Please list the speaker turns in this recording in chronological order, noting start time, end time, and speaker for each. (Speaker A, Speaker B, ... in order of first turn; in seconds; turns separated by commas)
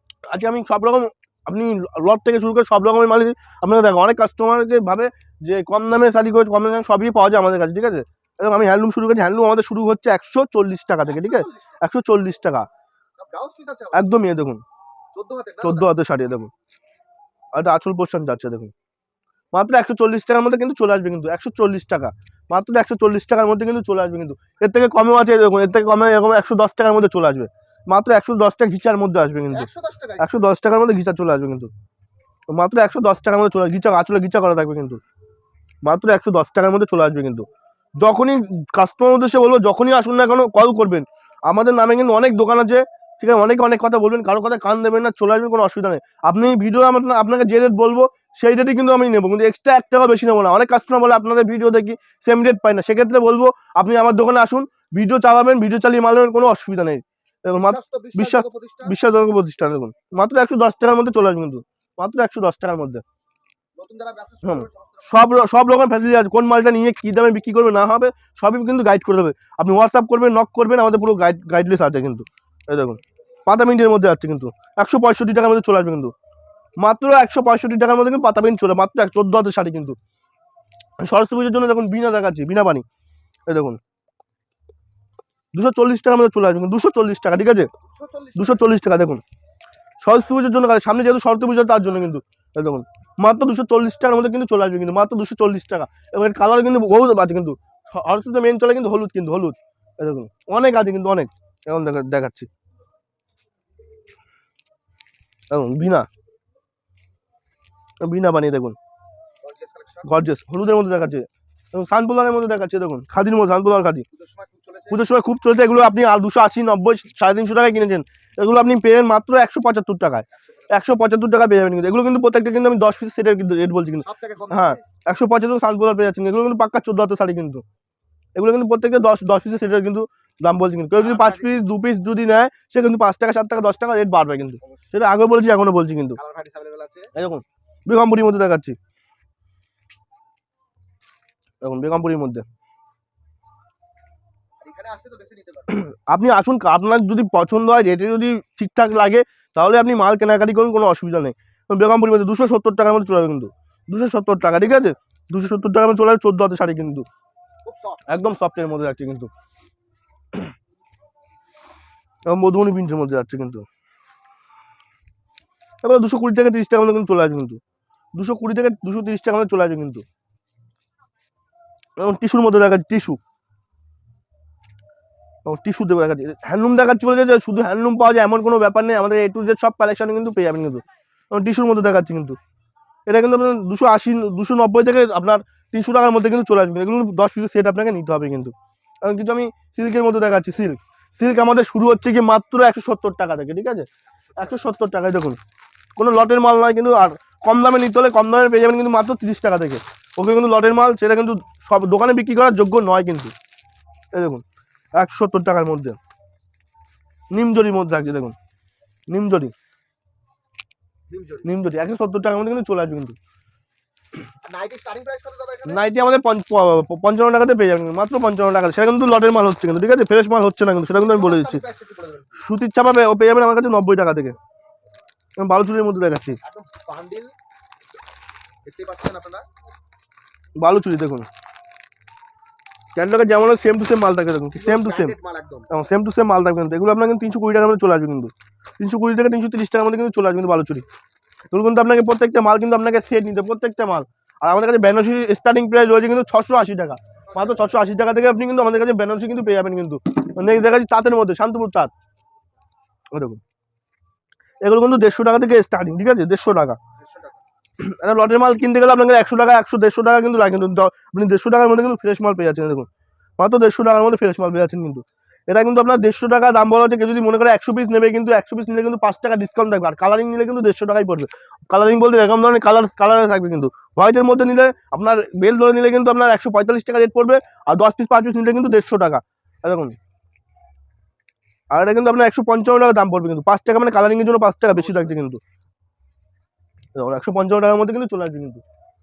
Speaker A: 0.3-12.7, Speaker B: 11.1-11.8, Speaker B: 13.2-14.1, Speaker A: 13.9-14.6, Speaker B: 15.1-15.9, Speaker A: 15.6-16.5, Speaker A: 17.6-18.7, Speaker A: 19.5-31.7, Speaker B: 29.5-30.3, Speaker A: 32.5-35.0, Speaker A: 35.8-37.5, Speaker A: 38.0-63.0, Speaker B: 57.6-59.0, Speaker B: 63.8-65.1, Speaker A: 64.4-76.1, Speaker A: 76.8-80.0, Speaker A: 81.0-82.8, Speaker A: 83.5-83.8, Speaker A: 85.5-87.7, Speaker B: 87.9-88.7, Speaker A: 88.4-89.2, Speaker A: 90.0-102.5, Speaker A: 105.5-106.1, Speaker A: 108.0-108.8, Speaker B: 109.4-110.1, Speaker A: 110.0-114.0, Speaker B: 114.1-115.0, Speaker A: 114.9-127.6, Speaker B: 120.3-120.8, Speaker B: 124.0-124.8, Speaker A: 128.4-136.2, Speaker B: 130.9-131.6, Speaker B: 136.2-137.1, Speaker A: 137.2-138.8, Speaker A: 141.6-142.4, Speaker B: 144.6-145.8, Speaker A: 145.7-157.1, Speaker B: 157.7-158.0, Speaker A: 158.1-159.3, Speaker A: 162.3-163.6, Speaker A: 165.8-167.6, Speaker A: 168.2-170.0, Speaker A: 172.0-173.2, Speaker A: 175.5-182.4, Speaker A: 183.1-193.9, Speaker B: 194.3-194.6, Speaker A: 194.4-195.4, Speaker A: 196.0-203.3, Speaker A: 204.1-204.4, Speaker A: 205.0-206.0, Speaker A: 207.3-208.3, Speaker A: 209.1-209.5, Speaker B: 211.1-211.5, Speaker A: 211.4-213.2, Speaker B: 214.4-215.8, Speaker A: 215.7-221.6, Speaker B: 220.9-222.5, Speaker A: 222.4-224.3, Speaker A: 225.4-226.4, Speaker B: 226.4-227.3, Speaker B: 228.7-229.5, Speaker A: 230.6-231.3, Speaker A: 233.0-235.2, Speaker B: 234.6-235.7, Speaker A: 235.7-240.8, Speaker A: 241.5-251.9, Speaker B: 247.3-247.7, Speaker A: 253.1-253.4, Speaker A: 254.6-256.8, Speaker B: 257.0-257.4, Speaker A: 257.8-262.9, Speaker A: 263.4-279.9, Speaker A: 281.7-285.4, Speaker B: 284.8-285.1, Speaker A: 287.0-288.6